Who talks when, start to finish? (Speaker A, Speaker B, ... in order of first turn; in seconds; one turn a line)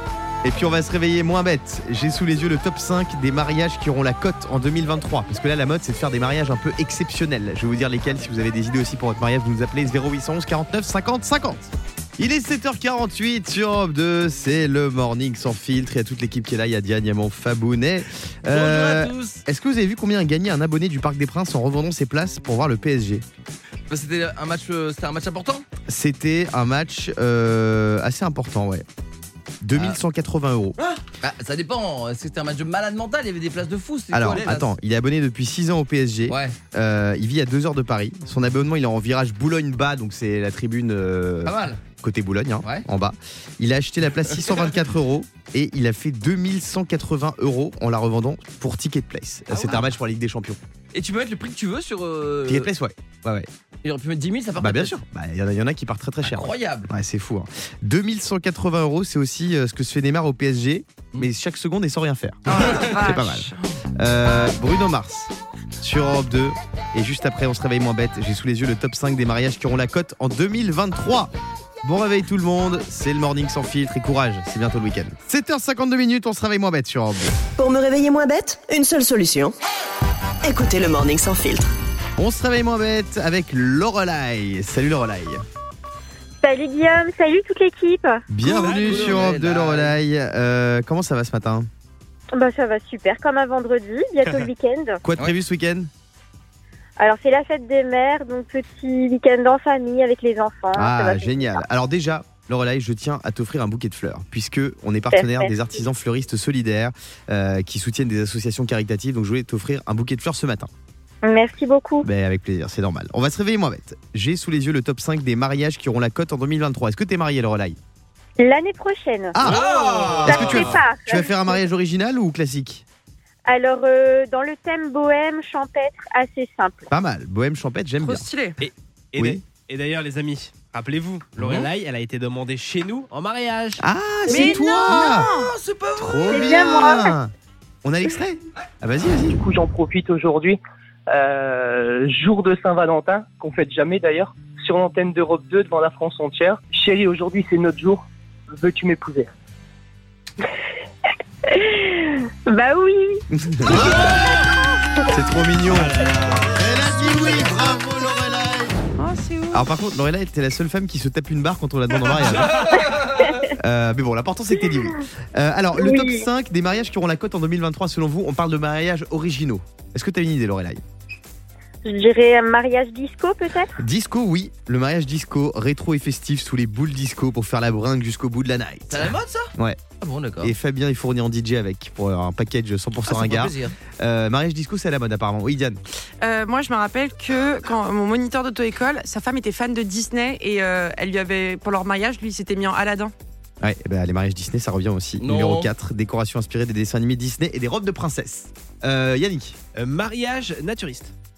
Speaker A: 0.4-23.2
Speaker B: 18.5-19.4
Speaker B: 23.9-25.7
Speaker A: 25.9-28.9
Speaker A: 29.6-30.8
Speaker B: 30.8-34.7
Speaker A: 34.1-50.6
Speaker B: 36.3-36.6
Speaker B: 41.5-41.8
Speaker B: 49.5-49.9
Speaker B: 50.9-52.7
Speaker A: 52.5-53.5
Speaker B: 53.8-55.0
Speaker A: 54.6-71.3
Speaker B: 56.2-56.9
Speaker C: 62.5-63.7
Speaker B: 62.5-62.9
Speaker A: 71.8-77.3
Speaker D: 77.6-79.5
Speaker D: 80.4-81.7
Speaker A: 82.2-85.4
Speaker E: 86.4-88.2
Speaker A: 88.3-91.7
Speaker B: 88.5-90.0
Speaker F: 88.5-89.4
Speaker E: 92.3-95.0
Speaker A: 95.0-95.9
Speaker E: 97.0-101.6
Speaker A: 100.7-110.7
Speaker E: 105.1-105.5
Speaker E: 111.2-112.1
Speaker A: 112.0-117.8
Speaker E: 118.4-119.4
Speaker A: 119.3-122.8
Speaker B: 119.4-120.8
Speaker F: 119.5-120.7
Speaker E: 120.2-121.6
Speaker E: 123.5-126.9
Speaker A: 126.9-128.3
Speaker C: 128.0-128.6
Speaker F: 128.6-133.8
Speaker B: 131.4-131.7
Speaker A: 133.8-135.3
Speaker C: 134.3-135.5
Speaker B: 135.2-136.7
Speaker A: 136.0-137.3
Speaker E: 136.3-137.2
Speaker A: 137.8-139.4
Speaker G: 139.3-149.3
Speaker E: 151.5-154.2
Speaker A: 153.3-154.3
Speaker A: 155.1-158.8
Speaker F: 155.7-156.6
Speaker C: 159.0-159.7
Speaker A: 159.5-163.0
Speaker B: 162.4-163.2
Speaker E: 163.2-163.5
Speaker A: 163.6-170.8
Speaker E: 165.8-166.3
Speaker E: 171.8-173.8
Speaker A: 173.8-179.8
Speaker B: 178.9-180.6
Speaker A: 180.4-185.8
Speaker B: 183.1-183.8
Speaker C: 186.2-193.1
Speaker A: 193.6-199.6
Speaker B: 195.2-195.7
Speaker F: 199.8-201.1